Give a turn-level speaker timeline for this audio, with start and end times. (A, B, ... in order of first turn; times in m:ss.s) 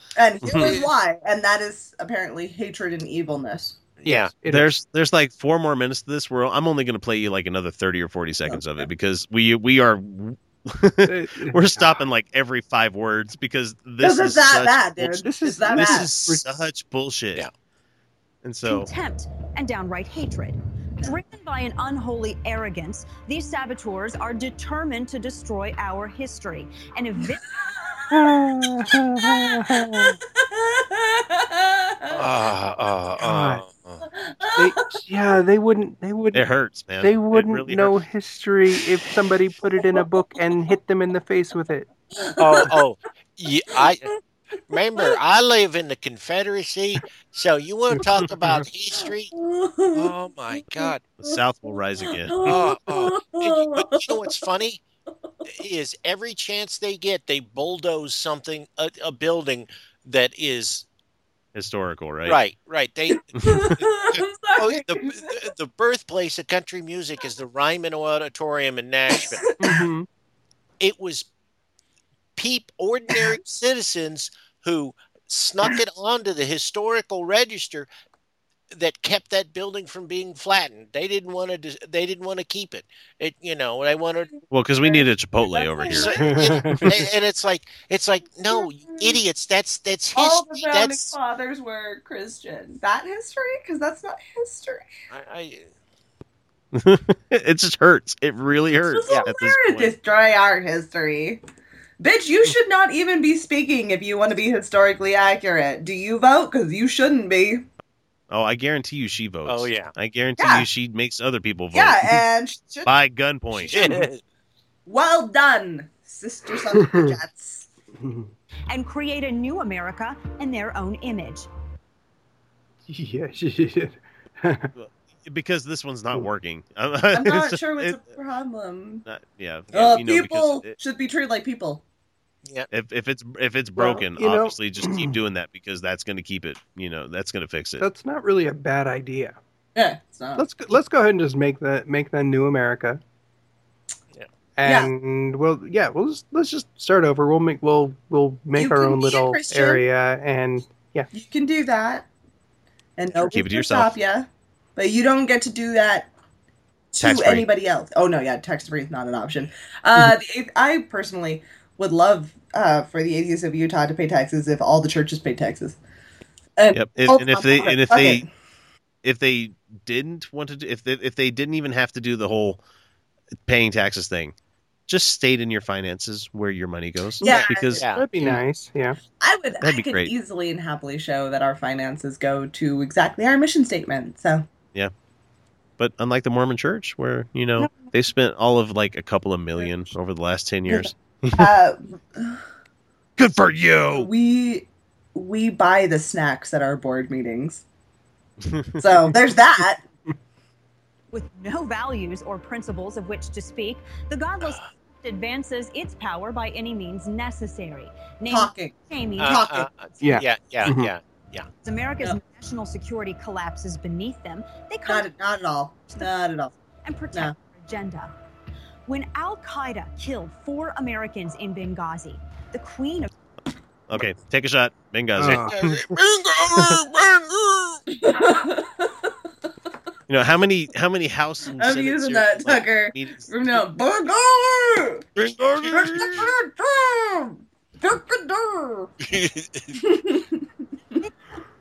0:00.2-0:03.8 A
0:00.4-0:00.7 B
0:00.5-0:00.9 C
0:04.0-0:04.3 C
0:04.0-0:04.7 D
0:04.5-0:17.4 B
0:08.5-0:08.9 A
0:11.0-0:12.0 D
0:14.0-0:16.1 A
0:15.2-0:16.4 D
0:18.4-0:18.9 B
0:18.6-0:27.4 E
0:27.4-0:28.3 A
0:28.1-0:30.2 D
0:29.2-0:32.2 A
0:32.1-0:34.0 C
0:33.2-0:33.6 D
0:34.2-0:34.8 A
0:34.4-0:36.4 D
0:36.3-0:38.0 B
0:37.0-0:41.9 D
0:39.8-0:40.0 A
0:42.1-0:42.7 A
0:42.4-0:44.1 C
0:44.7-0:49.3 C
0:48.2-0:48.6 D
0:49.3-0:50.1 A
0:49.9-0:51.0 C
0:50.7-0:51.4 A
0:51.2-0:52.4 B
0:52.2-0:54.3 A
0:52.4-0:54.8 C
0:55.5-1:00.8 C
1:01.5-1:02.4 B
1:02.2-1:09.4 C
1:03.3-1:05.4 A
1:09.3-1:09.8 A
1:09.6-1:10.1 D
1:10.8-1:11.3 C
1:12.4-1:17.9 C
1:18.7-1:24.3 C
1:24.5-1:26.2 B
1:24.8-1:26.4 A
1:25.9-1:31.2 C
1:26.1-1:27.0 D
1:28.5-1:29.2 A
1:30.1-1:34.9 A
1:35.1-1:35.7 C
1:36.7-1:40.0 B
1:38.9-1:41.4 A
1:42.0-1:47.6 A
1:48.3-1:52.2 B
1:49.4-1:49.9 C
1:50.4-1:50.6 A
1:51.7-1:52.9 A
1:52.8-1:53.9 B
1:53.7-1:54.2 C
1:54.8-1:57.7 A
1:56.7-1:57.2 D
1:58.0-1:58.3 D
1:58.7-2:01.5 E
2:02.9-2:04.7 D
2:04.8-2:08.0 B
2:07.1-2:09.0 A
2:09.0-2:10.8 B
2:09.7-2:11.8 A
2:12.7-2:17.9 B
2:13.8-2:15.1 D
2:17.8-2:19.4 D
2:19.7-2:20.4 A
2:20.4-2:23.0 D
2:24.6-2:31.1 D
2:24.6-2:24.9 A
2:28.5-2:29.8 A
2:31.1-2:32.1 A
2:33.0-2:36.1 A
2:33.2-2:34.0 B
2:36.9-2:45.8 A
2:37.0-2:37.5 B
2:46.6-2:48.3 A
2:46.7-2:48.2 B
2:49.0-2:52.6 B
2:53.4-2:54.3 B
2:54.9-2:57.8 B
2:57.2-2:58.4 A
2:57.2-2:58.1 C
2:57.8-2:59.0 D
2:59.2-3:04.5 A
2:59.6-3:00.1 B
3:05.8-3:11.5 B
3:07.6-3:07.9 A
3:10.7-3:12.4 A
3:13.2-3:14.1 B
3:13.9-3:17.6 A
3:18.4-3:18.8 B
3:18.8-3:19.8 A
3:21.1-3:29.4 E
3:28.3-3:29.7 A
3:29.2-3:31.5 C
3:30.0-3:30.9 D
3:31.6-3:35.1 E
3:34.8-3:36.5 A
3:36.8-3:38.1 E
3:38.9-3:43.1 E
3:43.9-3:45.6 B
3:45.2-3:45.6 D
3:45.5-3:47.8 C
3:47.9-3:49.1 A
3:50.1-3:53.6 B
3:51.6-3:55.0 A
3:55.2-3:56.3 C
3:55.5-3:56.3 B
3:55.7-3:58.9 A
3:59.0-3:59.7 C
3:59.8-4:01.0 A